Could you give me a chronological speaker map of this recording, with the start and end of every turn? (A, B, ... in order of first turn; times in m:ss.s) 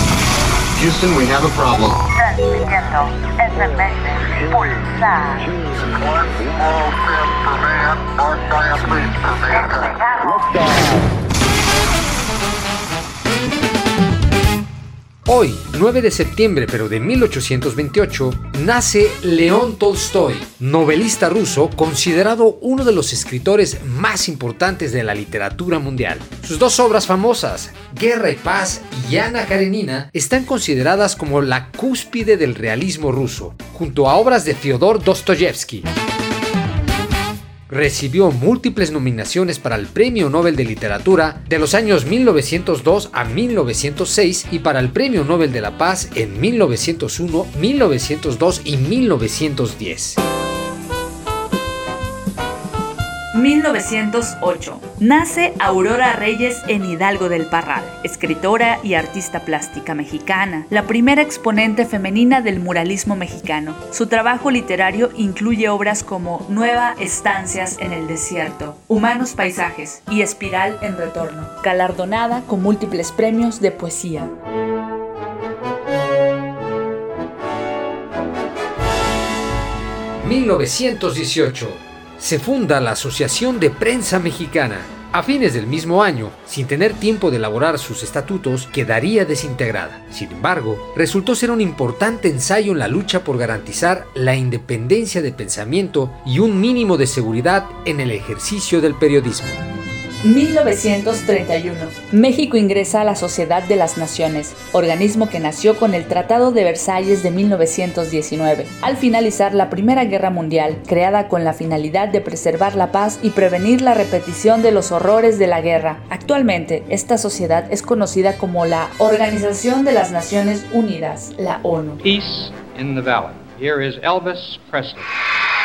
0:00.8-0:02.0 A
0:02.1-0:05.6 B
0:06.0-0:09.8 A
0:09.5-0:10.5 B
0:15.3-0:35.9 C
0:37.7-0:50.2 C
0:53.3-1:14.3 B
1:20.2-1:39.6 C
1:40.2-2:02.0 B
2:02.0-2:05.1 D